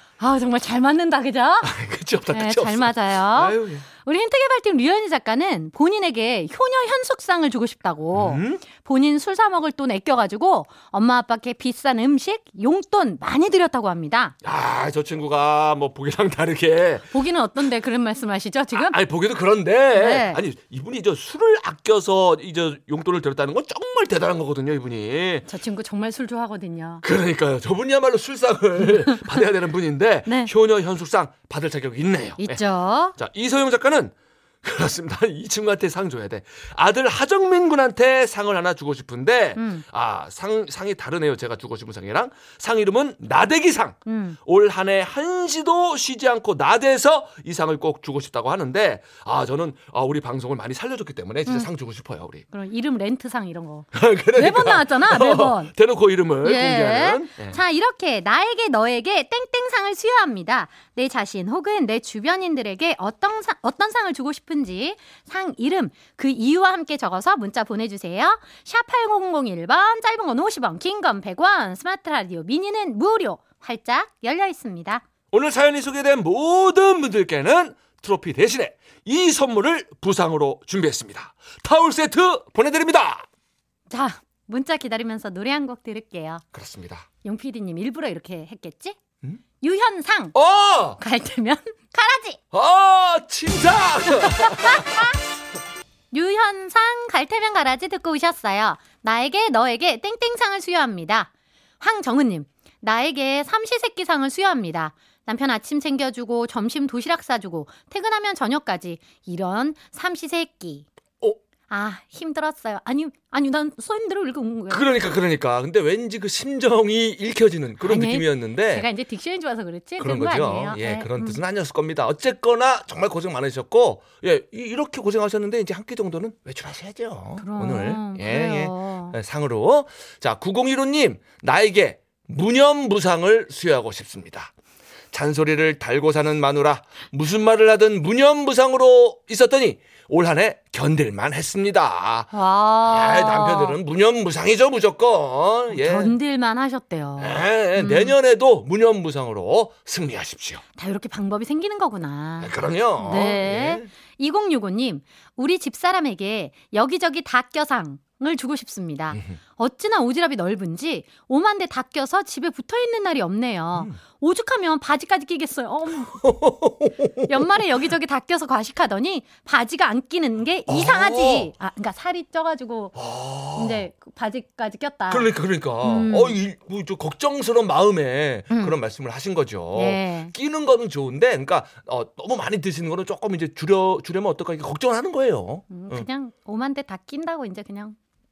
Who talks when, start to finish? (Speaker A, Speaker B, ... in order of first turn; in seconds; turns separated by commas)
Speaker A: 0.2-1.7, Speaker B: 1.6-3.8, Speaker A: 2.3-14.3, Speaker B: 8.1-8.6, Speaker B: 14.4-17.1, Speaker A: 17.1-19.0, Speaker B: 18.7-25.5, Speaker A: 19.9-20.4, Speaker A: 25.4-27.0, Speaker B: 27.0-32.6, Speaker A: 30.2-30.5, Speaker A: 32.4-33.1, Speaker B: 33.2-52.4, Speaker A: 39.6-39.8, Speaker A: 44.0-44.4, Speaker A: 52.5-55.7, Speaker B: 53.9-57.6, Speaker A: 56.4-75.0, Speaker B: 75.3-83.2, Speaker A: 83.9-86.4, Speaker B: 86.5-87.0, Speaker A: 87.2-89.0, Speaker A: 89.6-90.3, Speaker B: 90.3-91.0, Speaker A: 91.0-92.4, Speaker B: 92.5-95.0, Speaker A: 94.2-95.1, Speaker A: 96.1-110.8, Speaker A: 111.7-114.8, Speaker B: 114.7-118.9, Speaker A: 117.8-121.4, Speaker B: 120.0-134.5, Speaker A: 127.4-129.2, Speaker B: 135.1-142.3, Speaker A: 142.3-143.8, Speaker B: 142.8-146.1, Speaker A: 145.7-148.1, Speaker B: 147.2-150.6, Speaker A: 150.8-166.2, Speaker B: 152.4-153.9, Speaker B: 166.0-167.6, Speaker A: 167.3-172.9, Speaker B: 170.7-171.5, Speaker B: 172.9-173.8, Speaker A: 173.5-175.3, Speaker B: 175.1-186.1, Speaker A: 175.8-176.4, Speaker A: 178.5-178.8, Speaker A: 179.7-180.3, Speaker A: 185.7-188.0